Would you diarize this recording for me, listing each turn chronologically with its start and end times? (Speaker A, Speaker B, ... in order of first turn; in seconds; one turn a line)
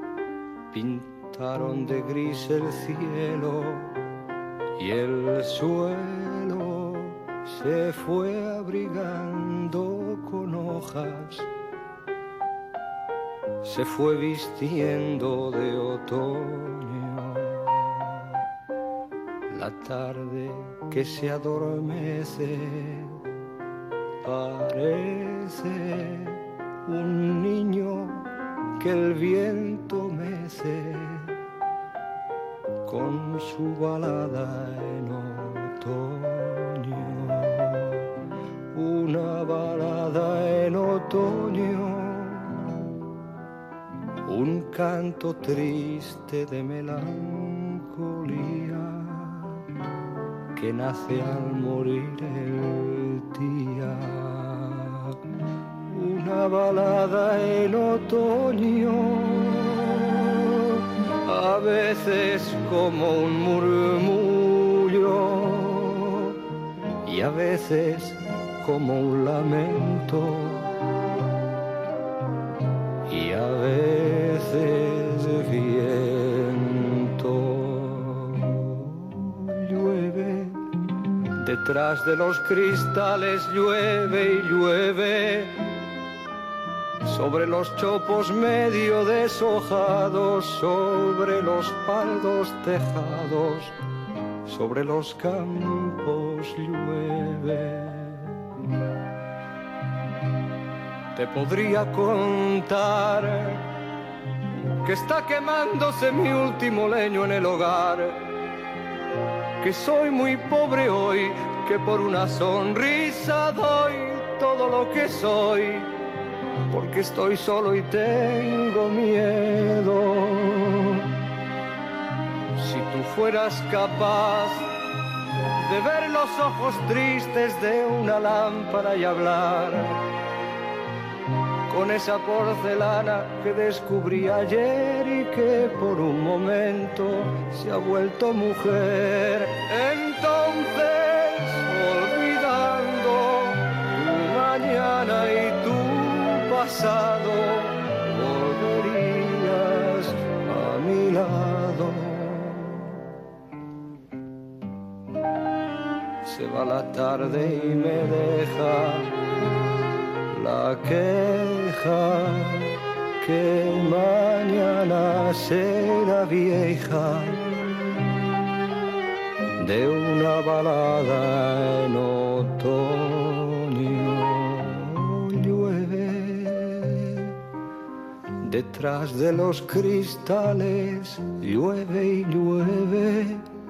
Speaker A: 0.7-4.0
Speaker A: 4.8-11.5
Speaker A: 13.6-18.4
Speaker A: 19.5-23.2
Speaker A: 24.2-31.4
Speaker A: 32.9-38.1
Speaker A: 38.7-43.0
Speaker A: 44.2-49.7
Speaker A: 50.5-55.2
Speaker A: 55.9-66.4
Speaker A: 67.0-70.8
Speaker A: 73.1-80.7
Speaker A: 81.2-85.8
Speaker A: 87.0-93.8
Speaker A: 94.5-98.4
Speaker A: 101.1-103.7
Speaker A: 104.8-108.3
Speaker A: 109.6-115.9
Speaker A: 116.7-121.2
Speaker A: 122.6-124.7
Speaker A: 125.6-130.1
Speaker A: 131.7-153.0
Speaker A: 156.2-159.2
Speaker A: 160.3-167.4
Speaker A: 169.6-177.4
Speaker A: 178.4-183.5